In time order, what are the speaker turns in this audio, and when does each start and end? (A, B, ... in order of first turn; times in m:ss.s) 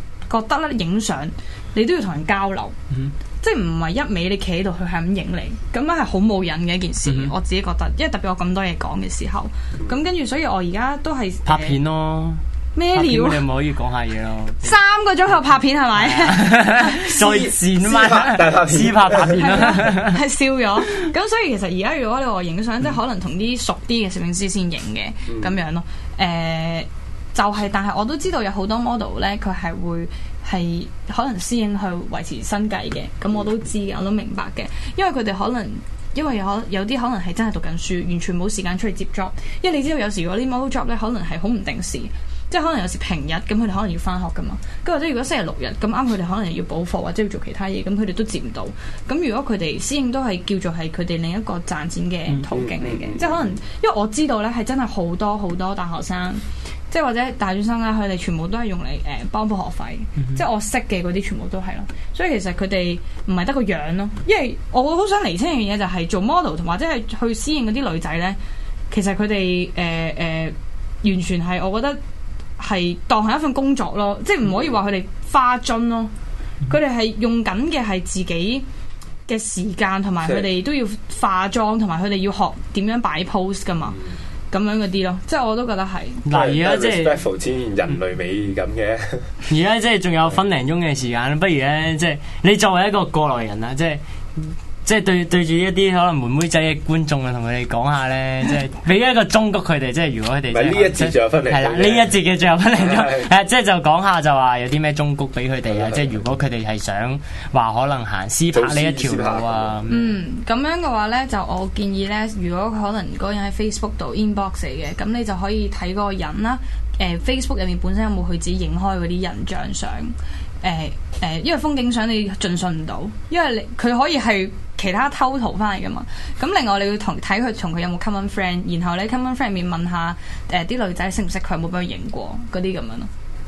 0:00.3-0:02.7 A
0:03.4-0:11.8 A
0:07.0-0:07.3 B
0:11.4-0:14.7 B
0:12.7-0:13.4 A
0:14.6-0:17.2 A
0:16.0-0:20.2 B
0:17.2-0:19.5 C
0:19.4-1:08.4 A
0:25.3-0:25.5 C
0:52.5-0:53.6 C
1:08.9-1:12.0 A
1:12.6-1:16.1 A
1:16.7-1:18.6 A
1:19.3-1:24.0 A
1:24.5-1:26.2 A
1:26.2-1:27.2 B
1:26.3-1:29.3 C
1:29.5-1:50.0 B
1:40.5-1:42.1 C
1:42.8-1:43.3 C
1:45.7-1:46.2 C
1:48.5-1:50.0 C
1:49.9-2:13.1 A